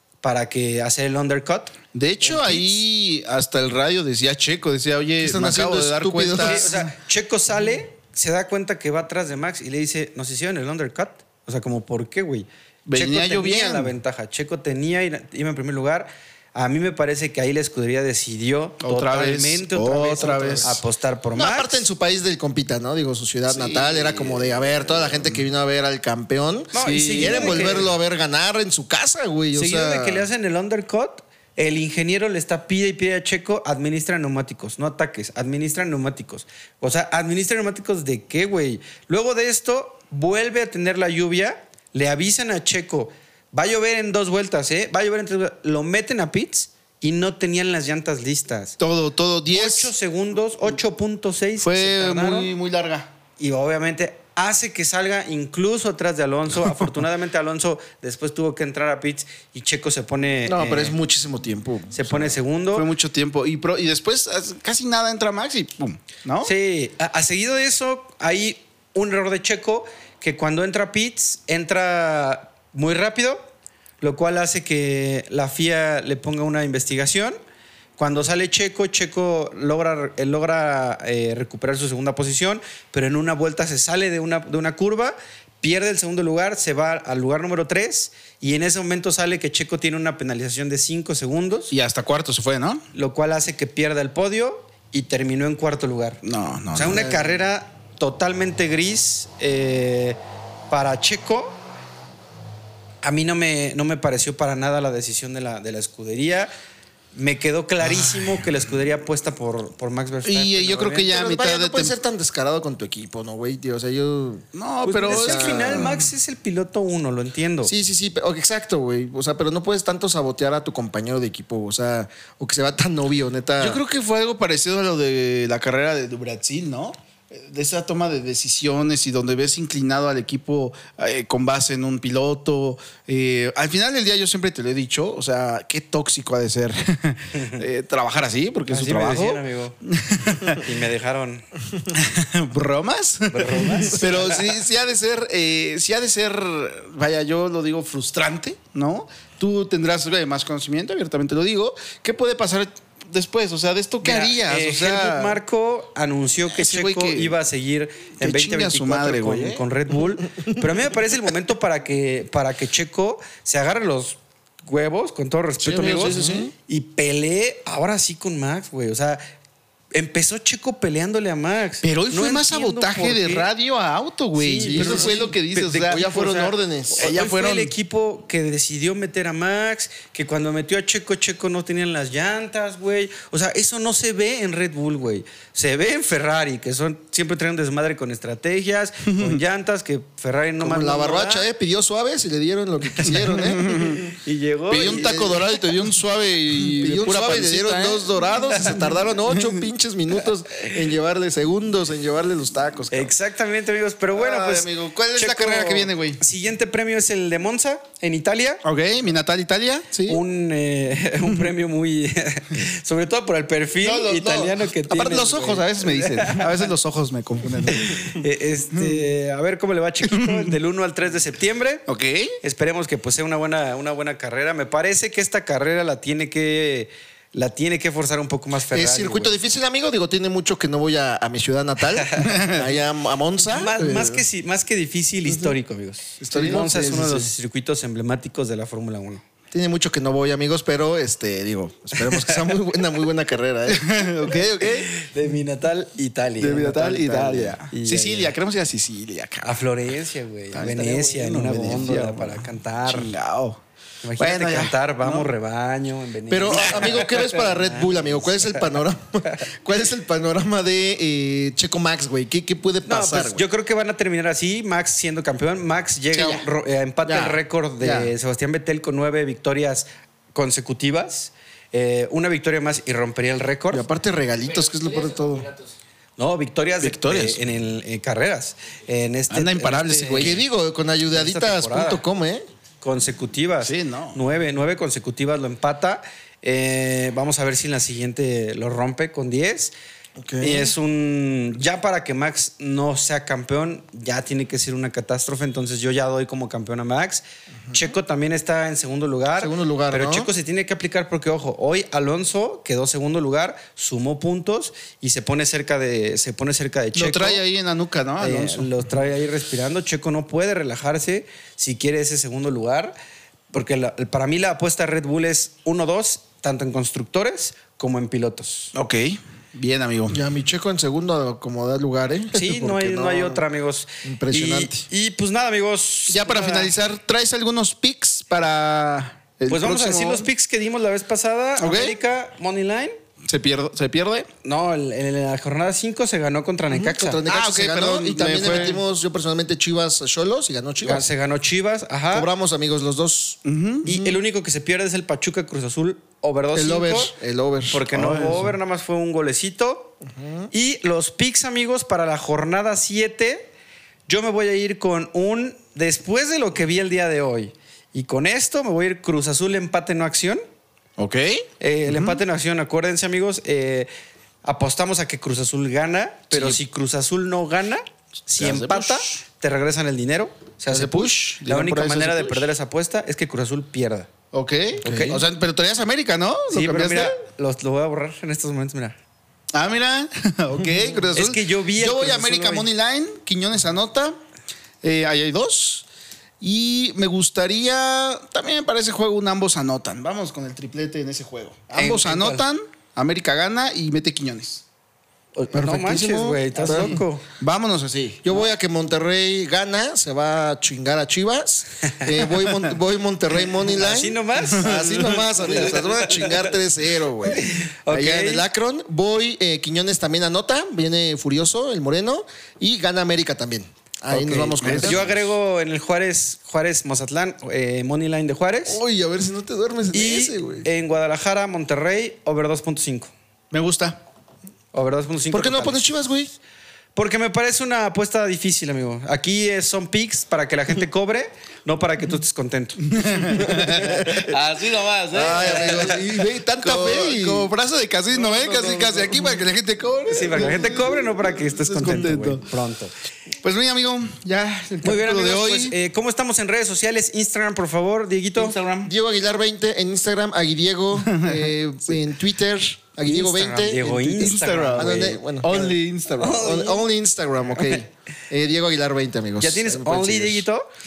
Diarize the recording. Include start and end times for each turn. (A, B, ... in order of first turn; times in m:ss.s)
0:00.2-0:01.7 A
0:01.9-0:06.9 B
0:02.2-0:02.8 C
0:05.2-0:06.7 C
0:06.4-0:21.8 A
0:12.8-0:13.9 B
0:18.8-0:20.7 B
0:21.3-0:30.2 C
0:23.5-0:25.4 B
0:26.7-0:27.9 A
0:26.8-0:27.9 B
0:29.5-0:48.8 A
0:48.8-0:49.9 B
0:49.5-0:52.5 A
0:51.6-0:53.1 B
0:53.4-1:01.0 A
1:00.4-1:02.4 C
1:01.9-1:02.9 A
1:02.7-1:06.5 B
1:06.4-1:13.5 A
1:14.0-1:17.4 A
1:18.0-1:31.7 A
1:31.7-1:32.8 B
1:32.9-1:36.2 A
1:36.2-1:37.1 B
1:36.7-1:40.2 A
1:36.8-1:37.4 C
1:40.7-1:41.6 A
1:43.0-1:46.5 A
1:47.1-1:51.1 A
1:50.2-1:51.9 B
1:51.0-1:54.4 C
1:54.5-1:56.0 B
1:54.8-1:57.7 A
1:55.1-1:56.0 C
1:57.6-2:03.8 C
2:03.6-2:20.6 B
2:17.3-2:17.6 A
2:18.7-2:19.8 A
2:20.6-2:21.4 A
2:21.9-2:35.4 B
2:23.3-2:24.5 A
2:34.0-2:49.2 A
2:36.5-2:37.3 B
2:38.2-2:39.6 B
2:45.6-2:46.5 C
2:45.6-2:46.5 B
2:49.9-2:53.5 A
2:51.8-2:57.7 B
2:54.4-3:11.5 A
2:54.6-2:55.3 C
2:55.9-2:57.1 C
3:09.0-3:09.4 B
3:10.6-3:14.1 C
3:13.0-3:14.1 B
3:14.2-3:15.2 A
3:14.7-3:19.6 B
3:14.7-3:15.4 C
3:16.7-3:23.1 C
3:22.9-3:28.6 A
3:24.1-3:26.2 B
3:28.6-3:30.2 B
3:30.1-3:36.7 A
3:33.8-3:38.0 B
3:37.7-3:41.8 A
3:38.7-3:39.0 B
3:40.0-3:40.5 B
3:41.9-3:42.3 B
3:42.4-3:49.3 A
3:48.7-3:54.2 C
3:52.0-3:52.4 A
3:52.3-3:52.6 B
3:53.5-3:59.2 A
3:55.2-3:55.5 C
3:56.2-3:57.3 C
3:59.5-4:04.0 C
4:03.7-4:04.9 B
4:04.6-4:08.3 A
4:06.4-4:09.6 B
4:09.4-4:13.2 A
4:10.5-4:13.6 B
4:14.0-4:18.5 A
4:14.2-4:15.3 B
4:16.3-4:23.4 C
4:22.8-4:33.8 A
4:26.1-4:26.4 B
4:27.0-4:28.1 B
4:33.7-4:35.5 C
4:36.2-4:40.4 A
4:36.8-4:37.4 B
4:39.3-4:40.4 B
4:40.2-4:42.4 C
4:41.1-4:42.0 A
4:42.8-4:49.7 A
4:43.6-4:44.2 B
4:50.2-4:50.7 C
4:50.4-5:07.4 A
4:59.4-5:00.3 C
5:06.9-5:08.7 B
5:08.2-5:12.9 A
5:13.5-5:18.7 A
5:18.7-5:20.2 B
5:20.1-5:23.4 C
5:22.3-5:26.7 A
5:24.0-5:24.8 C
5:26.1-5:30.3 B
5:29.5-5:33.0 A
5:31.6-5:32.0 B
5:33.3-5:34.3 B
5:34.4-5:37.2 A
5:36.7-5:41.1 C
5:37.3-5:38.8 B
5:40.8-5:42.3 A
5:42.1-5:43.4 C
5:43.4-5:43.9 B
5:43.8-5:47.1 A
5:46.5-5:48.4 C
5:47.7-5:49.9 A
5:47.9-5:48.5 B
5:50.0-5:50.5 C
5:50.5-5:53.5 A
5:54.1-6:00.4 A
6:01.0-6:02.2 B
6:01.6-6:03.9 A
6:04.4-6:14.1 A
6:06.3-6:06.6 B
6:08.4-6:09.2 B
6:10.7-6:12.5 B
6:14.3-6:17.2 B
6:14.8-6:15.2 A
6:14.8-6:15.1 C
6:16.5-6:19.0 A
6:19.5-6:24.2 B
6:21.1-6:22.7 A
6:24.8-6:25.8 B
6:26.4-6:34.6 B
6:31.7-6:32.4 A
6:35.4-6:37.2 A
6:35.5-6:37.0 C
6:36.7-6:38.2 B
6:38.2-6:55.2 C
6:41.9-6:42.2 A
6:43.6-6:46.5 A
6:44.5-6:45.2 B
6:47.2-6:48.4 A
6:54.1-6:58.8 A
6:54.5-6:55.2 B
6:58.7-7:00.7 C
6:59.9-7:03.1 A
7:03.5-7:04.0 B
7:04.7-7:05.8 A
7:05.3-7:06.3 C
7:06.9-7:16.0 A
7:12.8-7:14.3 B
7:13.5-7:14.3 C
7:15.1-7:17.5 C
7:15.4-7:15.9 B
7:16.6-7:22.4 B
7:18.2-7:18.9 A
7:18.5-7:19.0 C
7:20.1-7:22.9 A
7:23.4-7:25.8 B
7:24.8-7:28.6 A
7:28.4-7:28.9 B
7:28.8-7:40.4 C
7:31.0-7:31.5 B
7:33.0-7:35.2 A
7:33.8-7:36.5 B
7:36.2-7:36.9 A
7:37.5-7:37.8 A
7:39.4-7:40.7 A